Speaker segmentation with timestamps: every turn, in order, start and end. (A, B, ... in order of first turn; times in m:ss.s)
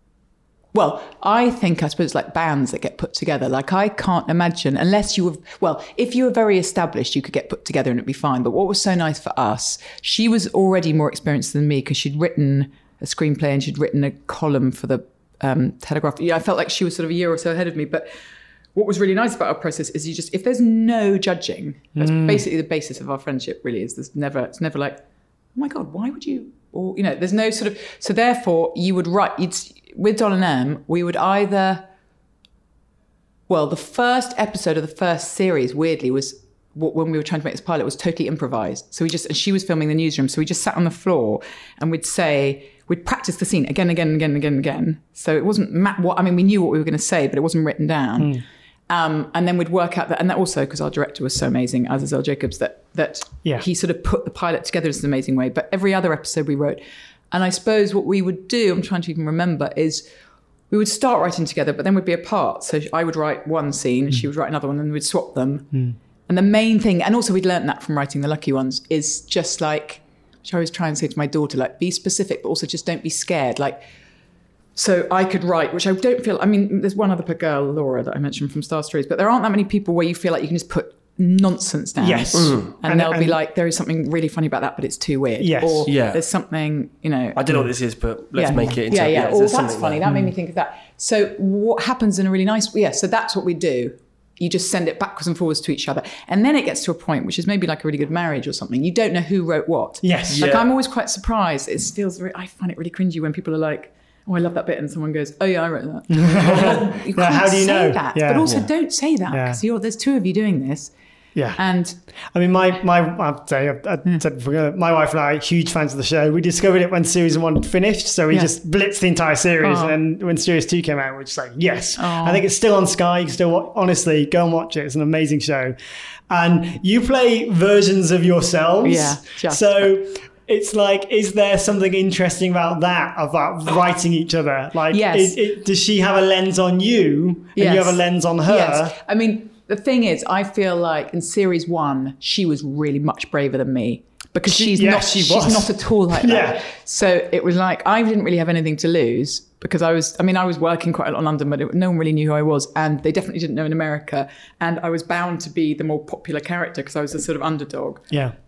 0:00.7-0:18.1 A
0:18.7-0:25.0 A
0:22.0-0:22.4 B
0:25.5-0:31.9 A
0:33.5-0:48.4 A
0:48.2-0:48.4 B
0:48.9-1:00.0 A
1:00.7-1:13.8 A
1:05.7-1:06.0 B
1:14.7-1:27.4 A
1:22.0-1:23.4 B
1:22.3-1:22.7 C
1:25.4-1:25.9 B
1:25.9-1:26.2 C
1:27.4-1:30.0 C
1:28.3-1:50.9 A
1:30.0-1:30.3 B
1:40.0-1:40.4 B
1:40.3-1:40.6 C
1:46.1-1:48.7 B
1:49.3-1:49.6 B
1:51.3-2:05.8 B
1:51.5-1:52.0 A
1:59.6-2:00.0 A
2:02.0-2:02.4 A
2:06.3-2:19.0 B
2:08.8-2:10.0 A
2:14.9-2:15.4 A
2:17.6-2:38.2 A
2:24.4-2:26.7 B